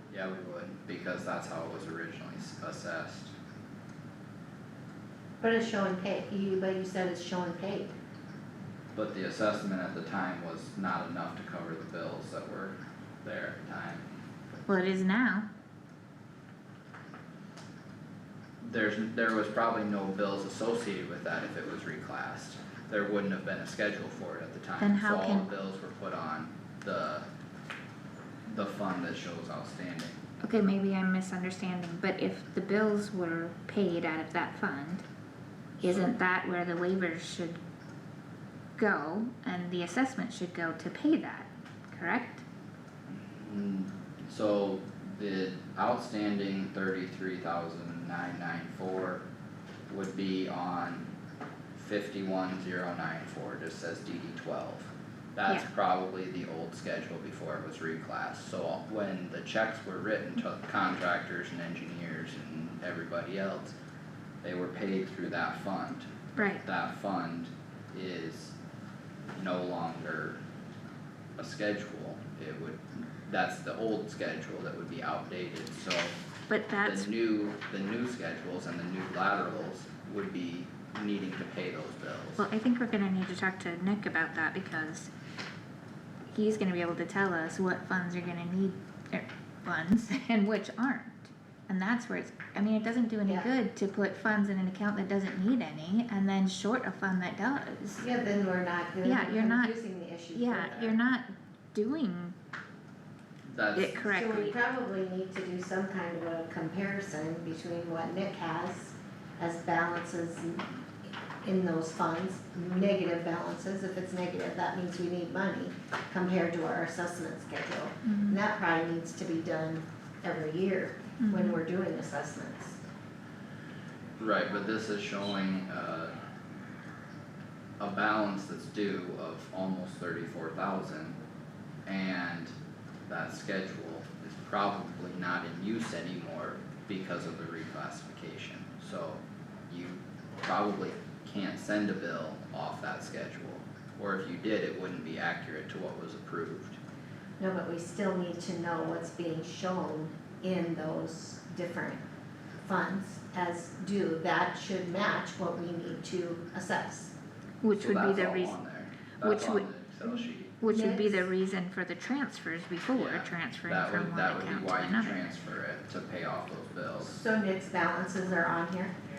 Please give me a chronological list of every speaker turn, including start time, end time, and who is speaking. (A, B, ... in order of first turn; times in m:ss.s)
0:00.1-0:03.3 A
0:05.4-0:07.9 B
0:08.9-0:14.0 A
0:14.7-0:15.5 C
0:18.6-0:27.2 A
0:24.8-0:25.5 C
0:28.5-0:30.2 A
0:30.4-0:35.0 C
0:35.8-0:36.1 A
0:35.8-0:37.6 C
0:38.8-0:42.4 C
0:43.1-0:49.2 A
0:49.9-0:51.1 A
0:51.7-1:03.7 A
1:04.4-1:06.1 A
1:06.4-1:06.6 C
1:06.6-1:08.5 A
1:09.4-1:10.4 A
1:11.4-1:16.2 A
1:16.5-1:17.1 C
1:16.8-1:22.4 A
1:22.4-1:25.1 C
1:26.3-1:38.0 C
1:33.2-1:33.5 B
1:38.0-1:41.0 B
1:39.0-1:39.8 C
1:40.3-1:42.3 C
1:43.5-1:44.1 A
1:43.8-1:44.6 C
1:44.0-1:50.8 B
1:51.4-2:02.8 B
1:58.0-1:58.4 C
2:01.2-2:01.6 C
2:04.2-2:06.1 A
2:07.8-2:11.2 A
2:11.9-2:12.5 A
2:13.1-2:26.8 A
2:27.4-2:32.0 B
2:32.6-2:37.1 B
2:37.6-2:38.6 C
2:37.7-2:40.6 A
2:39.2-2:39.7 C
2:40.6-2:45.2 C
2:40.7-2:41.3 B
2:42.9-2:47.2 A
2:47.0-2:48.9 B